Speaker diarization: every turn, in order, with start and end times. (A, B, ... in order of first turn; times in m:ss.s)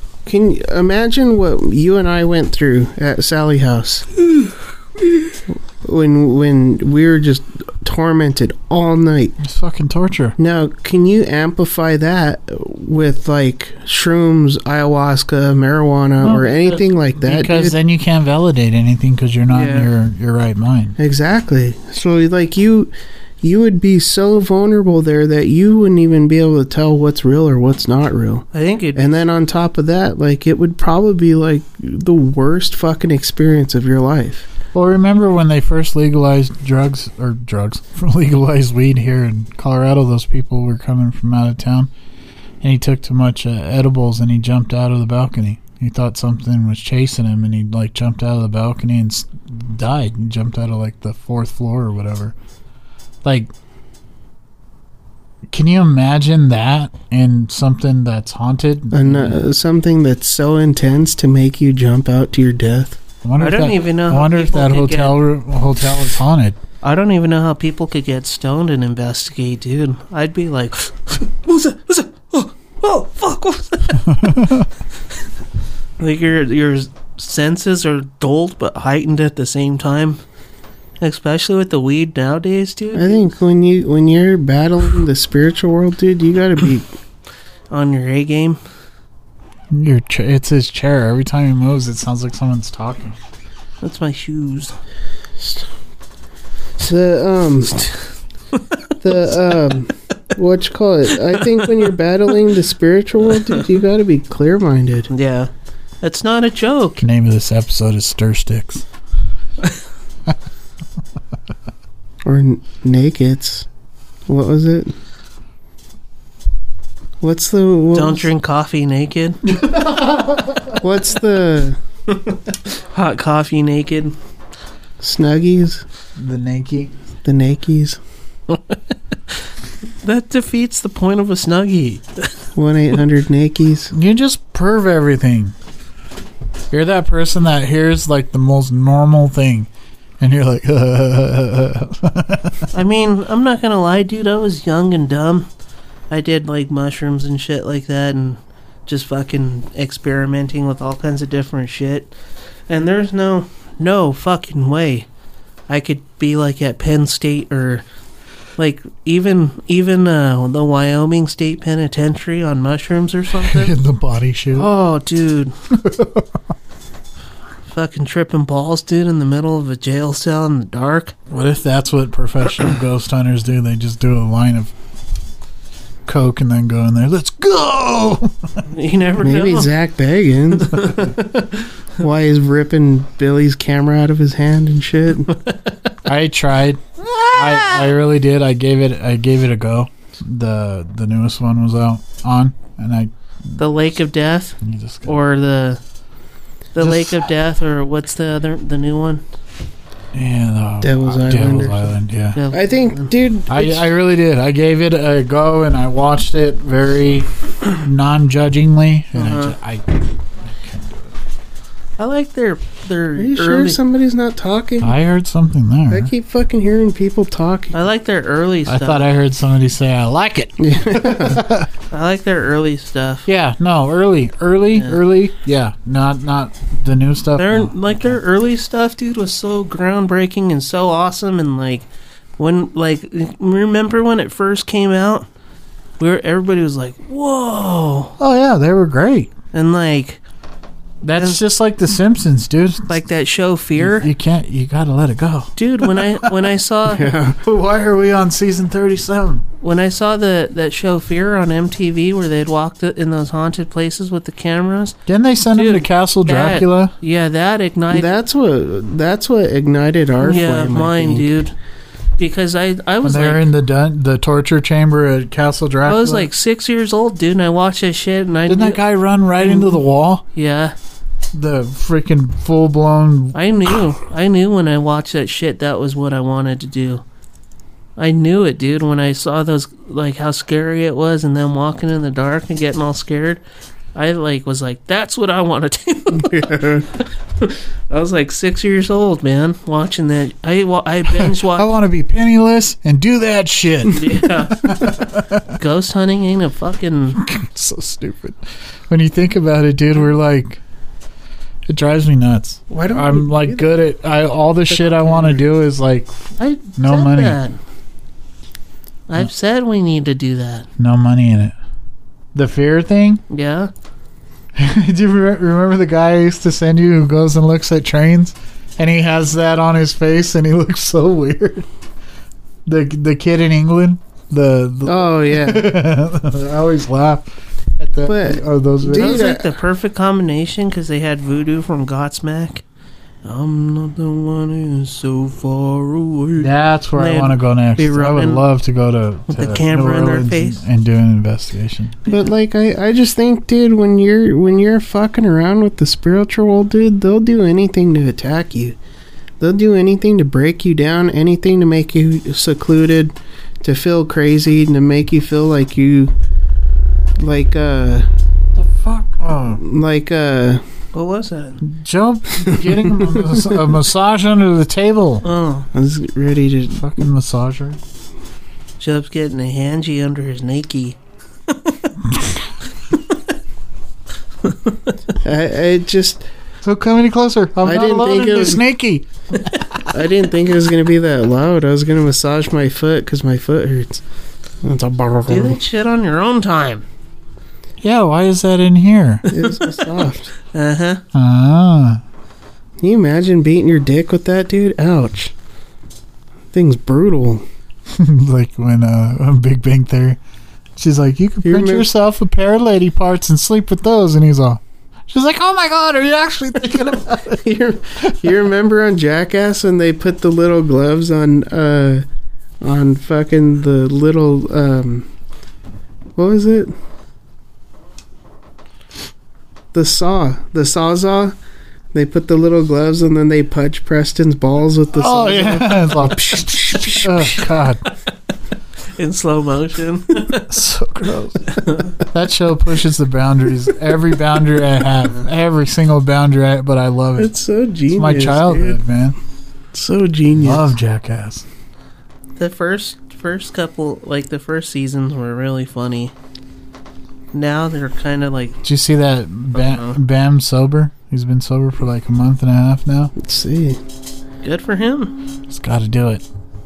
0:00.2-0:04.1 A
0:05.8-0:09.4 A
0:09.4-0:10.4 B
0:10.4-0:17.7 A
0:16.2-0:21.0 B
0:19.5-0:19.9 C
0:21.0-0:22.9 A
0:23.4-0:34.5 A
0:28.5-0:29.2 C
0:34.7-0:41.9 B
0:42.6-0:52.3 B
0:53.2-0:53.5 B
0:55.5-0:59.4 B
0:58.9-1:03.0 A
1:03.2-1:06.6 B
1:03.4-1:05.2 C
1:06.8-1:14.2 C
1:14.0-1:14.7 B
1:16.0-1:20.2 C
1:21.0-1:23.2 C
1:22.9-1:26.9 A
1:27.7-1:28.6 C
1:29.7-1:33.2 B
1:33.8-1:34.8 C
1:36.8-1:37.9 A
1:39.0-1:45.1 A
1:45.1-1:45.5 C
1:46.0-1:47.0 C
1:47.0-1:48.8 B
1:52.2-1:53.7 A
1:54.3-1:54.9 A
1:57.2-1:58.3 A
1:57.9-1:59.6 C
1:59.6-2:00.7 B
2:00.8-2:01.8 A
2:02.1-2:04.2 C
2:05.0-2:05.8 A
2:06.2-2:06.9 B
2:07.2-2:08.0 A
2:08.5-2:08.8 C
2:10.0-2:12.3 C
2:12.6-2:13.9 A
2:13.9-2:15.5 B
2:16.7-2:19.7 B
2:20.2-2:22.7 B
2:22.7-2:25.5 C
2:26.1-2:32.1 C
2:32.7-2:35.1 C
2:35.7-2:37.8 C
2:38.6-2:43.8 C
2:43.4-2:44.7 B
2:44.5-2:45.5 C
2:45.7-2:46.3 B
2:47.7-2:51.1 C
2:51.3-2:54.7 B
2:56.0-2:58.6 B
2:58.7-2:59.7 C
2:59.2-3:01.0 A
3:00.6-3:01.6 C
3:02.0-3:05.3 A
3:05.4-3:05.7 C
3:06.0-3:13.6 B
3:13.6-3:15.8 C
3:14.6-3:15.2 B
3:16.7-3:19.2 C
3:16.8-3:17.3 B
3:20.1-3:22.4 B
3:20.8-3:21.9 A
3:22.3-3:23.1 C
3:22.5-3:23.9 A
3:23.5-3:31.1 B
3:29.1-3:29.5 C
3:32.0-3:33.8 C
3:33.2-3:35.0 A
3:34.8-3:36.1 B
3:35.9-3:37.8 A
3:37.7-3:39.1 C
3:38.6-3:41.7 B
3:40.6-3:41.4 A
3:41.9-3:43.3 C
3:43.2-3:48.2 B
3:47.4-3:55.3 C
3:56.0-3:58.2 C
3:58.2-3:59.3 B
3:59.5-4:00.2 C
4:01.0-4:03.0 B
4:01.2-4:01.4 C
4:02.9-4:04.1 C
4:03.8-4:06.3 B
4:05.6-4:07.1 C
4:06.9-4:07.4 A
4:07.4-4:09.4 B
4:09.6-4:15.0 C
4:15.0-4:16.9 B
4:15.5-4:18.1 C
4:17.9-4:21.3 A
4:20.2-4:21.5 C
4:22.2-4:23.5 C
4:23.0-4:26.3 B
4:25.8-4:28.8 C
4:28.5-4:30.2 B
4:29.4-4:29.8 C
4:30.3-4:30.7 C
4:31.3-4:33.4 B
4:33.3-4:37.0 C
4:38.0-4:43.4 C
4:43.9-4:51.7 C
4:46.1-4:46.9 A
4:51.4-4:55.4 B
4:53.9-4:55.0 C
4:55.5-4:57.2 C
4:57.2-5:00.6 B
5:01.7-5:07.4 B
5:02.7-5:03.7 A
5:04.7-5:05.4 A
5:06.4-5:07.6 C
5:09.1-5:10.7 C
5:10.8-5:11.5 B
5:12.3-5:13.2 B
5:13.3-5:13.7 C
5:14.5-5:21.6 B
5:22.6-5:29.3 B
5:24.8-5:25.7 A
5:28.0-5:29.5 A
5:28.9-5:32.6 C
5:33.2-5:38.4 C
5:36.4-5:42.0 B
5:39.3-5:40.6 C
5:42.1-5:48.8 A
5:49.4-5:56.1 A
5:57.2-5:58.1 A
5:58.6-5:59.6 B
5:59.6-6:00.6 A
6:00.9-6:01.6 C
6:01.6-6:05.2 B
6:02.4-6:03.6 A
6:05.2-6:05.7 C
6:05.7-6:07.0 A
6:06.8-6:07.8 B
6:08.8-6:11.0 C
6:11.5-6:12.0 C
6:12.9-6:13.2 C
6:14.4-6:15.0 C
6:15.2-6:16.2 A
6:16.6-6:19.8 B
6:17.6-6:18.6 A
6:19.8-6:24.0 A
6:24.6-6:25.6 A
6:25.3-6:26.8 C
6:27.8-6:29.3 B
6:29.3-6:31.0 C
6:29.3-6:30.3 A
6:31.1-6:32.0 B
6:32.8-6:35.3 A
6:36.5-6:37.4 A
6:37.9-6:40.2 B
6:40.8-6:47.4 B
6:41.4-6:41.9 A
6:47.3-6:52.0 A
6:48.0-6:48.3 B
6:52.6-6:55.1 A
6:56.2-6:56.7 A
6:59.7-7:01.3 A
7:01.9-7:07.4 A
7:04.9-7:07.8 B
7:08.9-7:10.5 C
7:10.4-7:17.3 B
7:11.5-7:11.9 C
7:17.2-7:18.8 A
7:17.9-7:19.2 B
7:19.7-7:20.7 A
7:20.4-7:21.4 B
7:22.4-7:26.1 C
7:27.3-7:28.6 C
7:28.6-7:33.1 B
7:29.5-7:30.0 C
7:33.2-7:33.8 A
7:34.4-7:35.2 C
7:35.5-7:36.2 B